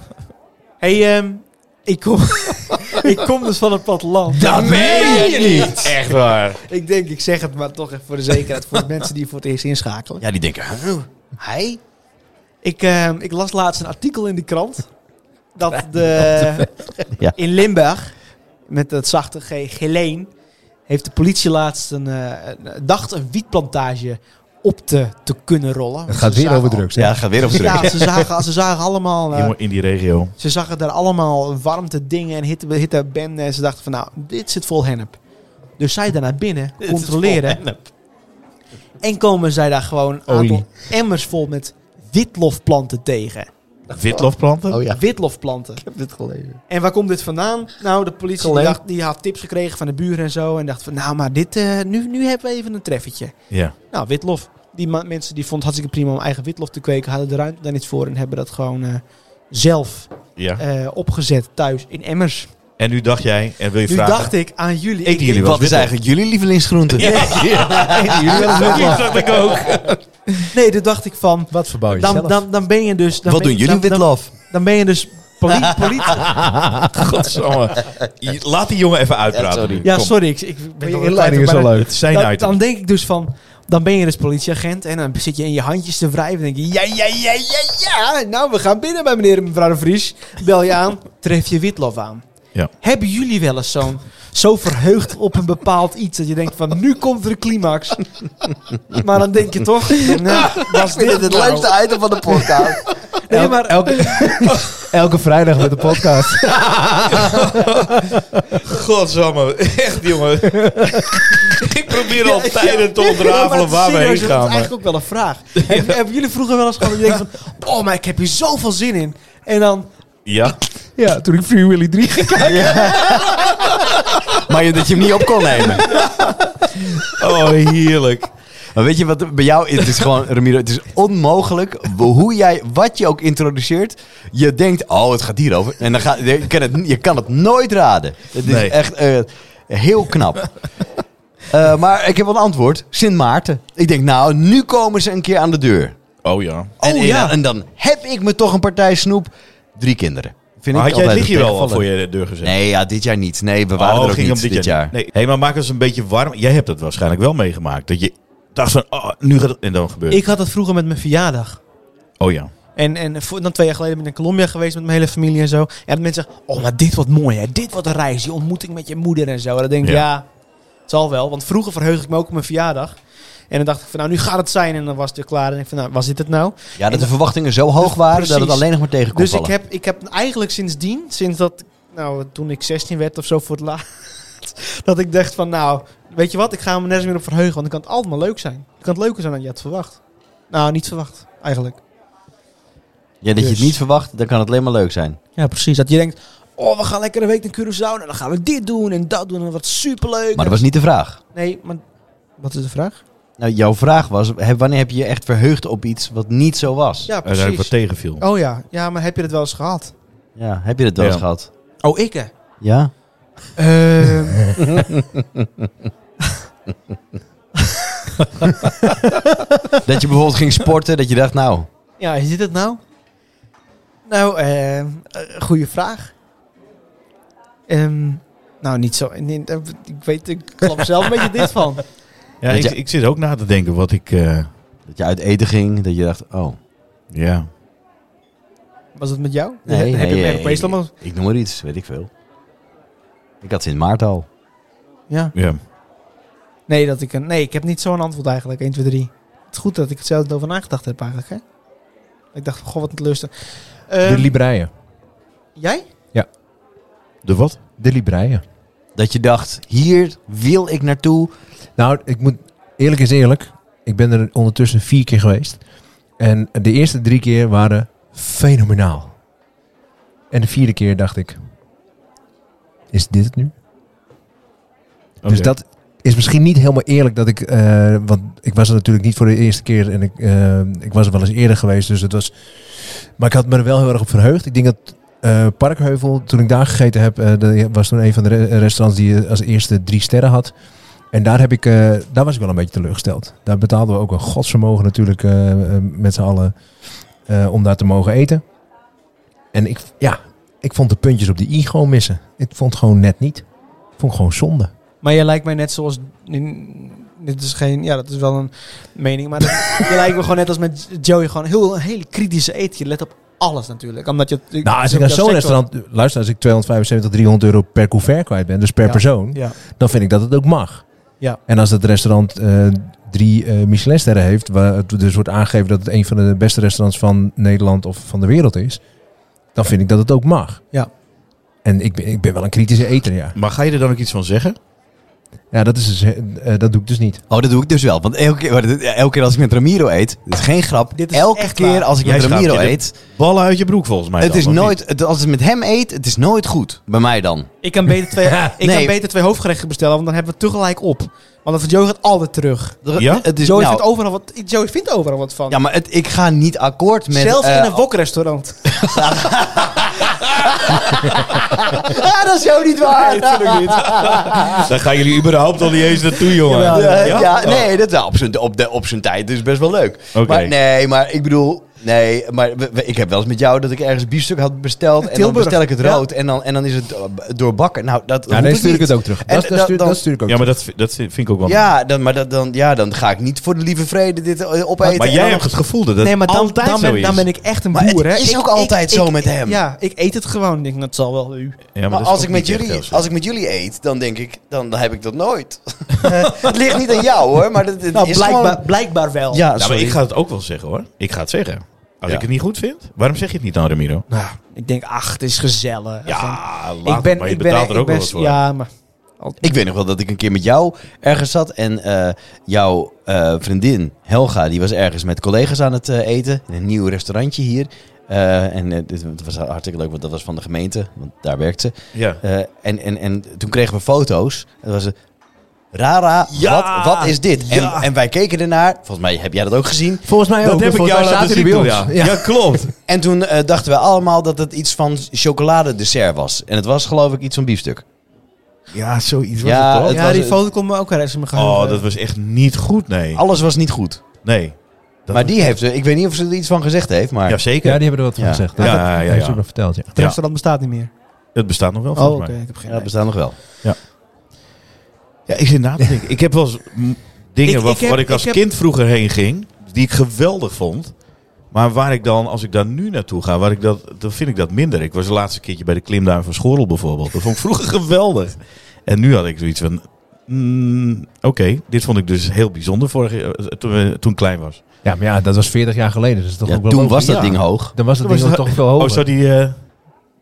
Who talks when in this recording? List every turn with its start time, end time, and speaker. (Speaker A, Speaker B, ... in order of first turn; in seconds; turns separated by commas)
Speaker A: 0.8-6.1, Speaker B: 4.3-5.9, Speaker C: 4.4-5.3, Speaker D: 4.8-6.6, Speaker A: 6.6-10.2, Speaker C: 10.2-11.8, Speaker A: 12.6-14.9, Speaker A: 15.5-18.1, Speaker A: 18.7-20.3, Speaker A: 20.9-26.9, Speaker B: 26.1-28.1, Speaker C: 26.9-28.0, Speaker A: 27.4-29.5, Speaker D: 29.3-30.3, Speaker A: 30.4-35.2, Speaker A: 35.8-37.6, Speaker C: 36.8-37.8, Speaker A: 39.0-43.5, Speaker B: 40.3-40.6, Speaker D: 43.9-44.8, Speaker C: 44.7-45.0, Speaker A: 44.9-45.8, Speaker C: 45.8-46.6, Speaker A: 46.7-62.5, Speaker C: 48.4-48.8, Speaker D: 53.5-53.7, Speaker D: 60.4-60.6, Speaker D: 62.8-64.3, Speaker A: 63.9-65.5, Speaker D: 65.0-65.9, Speaker C: 65.3-68.9, Speaker D: 67.0-70.0, Speaker B: 67.0-69.6, Speaker A: 67.1-67.5, Speaker A: 68.1-69.2, Speaker A: 70.5-76.4, Speaker B: 71.5-72.4, Speaker C: 73.2-74.3, Speaker B: 76.1-76.9, Speaker D: 76.9-80.1, Speaker C: 79.3-79.9, Speaker A: 79.8-92.2, Speaker B: 80.8-81.9, Speaker D: 81.7-82.6, Speaker A: 92.8-98.1, Speaker A: 98.9-101.7, Speaker C: 100.6-102.8, Speaker A: 103.2-104.5, Speaker B: 103.3-108.6, Speaker D: 107.2-114.7, Speaker B: 110.5-111.2, Speaker A: 112.1-119.9, Speaker D: 115.6-116.0, Speaker D: 120.2-120.6, Speaker B: 121.0-123.2, Speaker C: 122.4-123.3, Speaker C: 124.3-125.9, Speaker D: 127.0-128.3, Speaker C: 128.7-140.5, Speaker D: 138.4-138.7, Speaker C: 141.5-145.9, Speaker D: 146.2-146.7, Speaker C: 146.8-151.8, Speaker A: 146.8-147.3, Speaker D: 150.7-152.5, Speaker C: 152.4-154.9, Speaker D: 153.8-160.2, Speaker A: 160.1-161.6, Speaker D: 162.2-162.5, Speaker A: 162.8-170.2, Speaker A: 170.9-177.1, Speaker C: 176.8-179.5, Speaker A: 177.8-183.8, Speaker A: 184.4-190.0, Speaker A: 190.5-191.8, Speaker C: 193.2-195.2, Speaker A: 193.4-193.8, Speaker A: 195.4-200.6, Speaker C: 200.3-201.2, Speaker A: 201.3-201.8, Speaker A: 202.4-203.0, Speaker C: 203.4-207.1, Speaker A: 207.1-209.9, Speaker D: 207.2-208.2, Speaker C: 210.3-211.5, Speaker D: 211.0-211.2, Speaker A: 211.8-212.3, Speaker C: 212.6-212.9, Speaker A: 213.6-214.8, Speaker C: 219.8-221.7, Speaker A: 222.0-222.8, Speaker A: 224.1-226.1, Speaker A: 227.7-231.8, Speaker D: 232.4-234.5, Speaker C: 232.5-232.8, Speaker C: 234.9-236.6, Speaker D: 237.1-237.5, Speaker A: 238.9-240.9, Speaker C: 239.7-242.1, Speaker C: 243.4-244.2, Speaker A: 245.1-245.3, Speaker D: 245.3-245.6, Speaker A: 246.7-251.4, Speaker A: 252.3-254.3, Speaker B: 254.0-254.7, Speaker A: 255.6-255.8, Speaker D: 257.2-257.6, Speaker B: 257.8-258.4, Speaker C: 258.9-261.3, Speaker B: 261.8-265.6, Speaker B: 266.2-269.1, Speaker B: 270.3-271.4, Speaker B: 272.9-273.5, Speaker D: 275.2-275.5, Speaker B: 275.2-290.5, Speaker B: 291.1-296.6, Speaker B: 297.2-298.4, Speaker B: 299.5-303.5, Speaker B: 304.0-304.7, Speaker A: 305.0-315.6, Speaker B: 314.6-320.8, Speaker A: 318.8-319.6, Speaker B: 321.4-328.8, Speaker B: 329.5-330.6, Speaker B: 331.6-333.4, Speaker D: 333.4-334.6, Speaker B: 335.5-337.2, Speaker C: 337.3-342.9, Speaker A: 340.9-341.9, Speaker D: 342.0-344.8, Speaker C: 344.2-347.5, Speaker A: 347.6-352.8, Speaker C: 348.6-348.9, Speaker C: 352.8-353.8, Speaker D: 353.0-353.2, Speaker A: 353.4-355.6, Speaker C: 355.5-357.8, Speaker A: 357.1-358.9, Speaker C: 358.8-364.4, Speaker A: 362.6-364.5, Speaker D: 363.9-367.7, Speaker A: 366.4-367.3, Speaker C: 366.5-380.0, Speaker D: 370.1-370.5, Speaker A: 375.0-376.1, Speaker B: 378.3-380.5, Speaker D: 380.3-381.7, Speaker C: 381.4-385.4, Speaker A: 384.8-391.6, Speaker D: 384.9-387.3, Speaker C: 387.7-389.6, Speaker D: 391.7-393.0, Speaker C: 391.9-398.7, Speaker A: 397.9-399.4, Speaker C: 399.3-400.0, Speaker D: 399.6-404.1, Speaker A: 404.1-409.5, Speaker D: 406.1-408.4, Speaker C: 409.4-424.9, Speaker D: 421.9-422.2, Speaker C: 425.7-430.1, Speaker D: 426.3-427.8, Speaker B: 430.0-432.7, Speaker D: 430.4-432.7, Speaker C: 432.9-437.8, Speaker D: 438.7-440.0, Speaker C: 439.4-440.4, Speaker A: 439.9-441.8, Speaker D: 441.3-443.2, Speaker C: 443.1-444.0, Speaker D: 444.2-445.6, Speaker C: 445.1-447.4, Speaker D: 447.3-447.8, Speaker B: 447.6-449.9, Speaker C: 448.2-448.4, Speaker D: 448.6-450.2, Speaker A: 448.6-448.8, Speaker A: 449.9-450.9, Speaker D: 451.3-452.4, Speaker A: 451.9-452.9, Speaker C: 452.7-453.4, Speaker D: 455.3-460.9, Speaker A: 457.4-458.4, Speaker D: 461.5-474.6, Speaker B: 474.8-479.1, Speaker C: 476.5-477.7, Speaker D: 477.0-479.9